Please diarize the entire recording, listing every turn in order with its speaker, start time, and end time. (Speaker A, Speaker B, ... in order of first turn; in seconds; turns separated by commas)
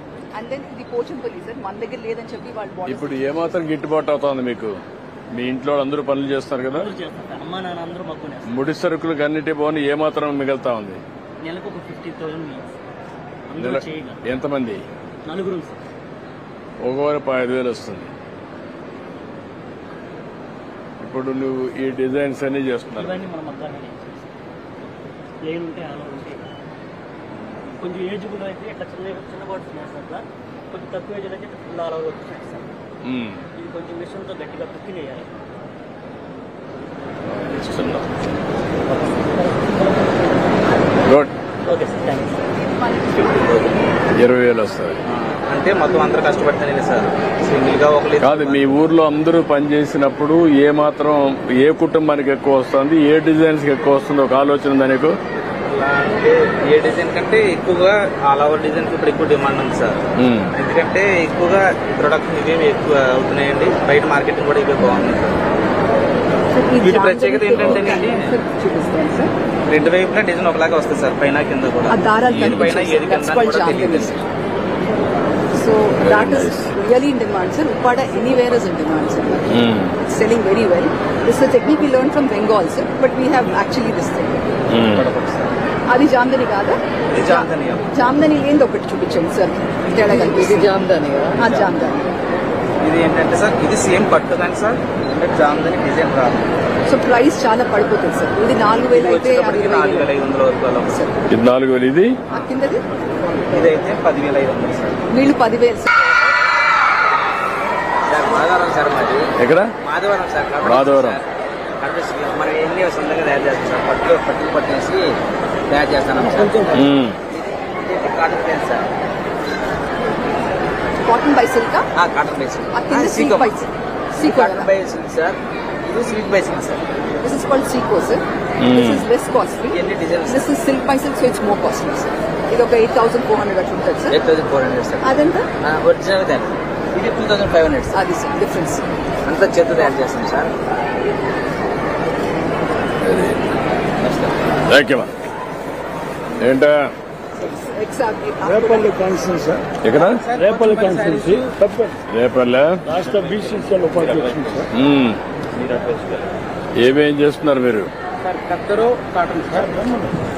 Speaker A: 0.3-3.4, Speaker B: 2.9-4.8, Speaker B: 5.3-6.9, Speaker C: 6.7-8.5, Speaker B: 8.5-11.0, Speaker C: 11.4-12.8, Speaker C: 13.5-14.2, Speaker B: 13.6-14.8, Speaker C: 15.2-15.8, Speaker B: 16.8-18.1, Speaker B: 21.0-23.2, Speaker C: 22.9-24.3, Speaker C: 25.4-26.5, Speaker C: 27.8-32.7, Speaker B: 33.0-33.4, Speaker C: 33.5-35.3, Speaker B: 37.2-38.1, Speaker C: 38.9-39.8, Speaker B: 41.0-41.3, Speaker C: 41.6-42.4, Speaker A: 42.5-43.4, Speaker D: 43.1-43.9, Speaker B: 44.1-45.0, Speaker D: 45.1-48.7, Speaker B: 48.2-55.1, Speaker D: 55.7-60.0, Speaker B: 60.2-60.5, Speaker D: 60.5-65.4, Speaker A: 66.5-69.3, Speaker D: 66.8-68.3, Speaker D: 69.7-74.2, Speaker A: 71.9-74.3, Speaker A: 75.5-84.6, Speaker B: 76.0-76.7, Speaker B: 79.5-79.9, Speaker B: 84.7-85.1, Speaker D: 84.8-85.6, Speaker A: 85.9-90.8, Speaker D: 87.1-87.8, Speaker D: 90.8-91.8, Speaker A: 91.3-92.1, Speaker D: 92.8-96.5, Speaker A: 96.8-100.1, Speaker D: 98.9-101.0, Speaker A: 100.9-101.2, Speaker B: 101.3-102.1, Speaker A: 102.3-103.8, Speaker D: 103.5-105.0, Speaker A: 105.1-105.9, Speaker D: 108.0-111.2, Speaker B: 109.4-109.7, Speaker B: 110.6-111.2, Speaker D: 111.8-115.2, Speaker D: 115.7-116.8, Speaker E: 116.2-116.8, Speaker B: 116.7-117.2, Speaker D: 117.3-118.9, Speaker A: 121.0-121.8, Speaker D: 121.9-123.6, Speaker A: 122.7-124.7, Speaker D: 124.2-126.8, Speaker A: 127.2-134.2, Speaker B: 128.6-129.1, Speaker D: 129.7-130.5, Speaker D: 134.1-135.1, Speaker A: 135.0-135.5, Speaker D: 135.6-138.0, Speaker A: 137.9-138.9, Speaker D: 139.2-140.5, Speaker B: 143.0-143.4, Speaker D: 144.0-144.5, Speaker B: 144.7-145.1, Speaker B: 146.4-146.9, Speaker A: 147.3-149.2, Speaker E: 148.4-149.8, Speaker B: 149.8-150.2, Speaker D: 149.9-151.5, Speaker E: 150.3-152.0, Speaker B: 152.1-152.8, Speaker C: 152.9-153.8, Speaker E: 152.9-154.7, Speaker D: 154.0-154.5, Speaker B: 154.7-155.2, Speaker D: 155.6-156.3, Speaker B: 156.8-157.9, Speaker D: 158.2-159.7, Speaker E: 159.7-160.1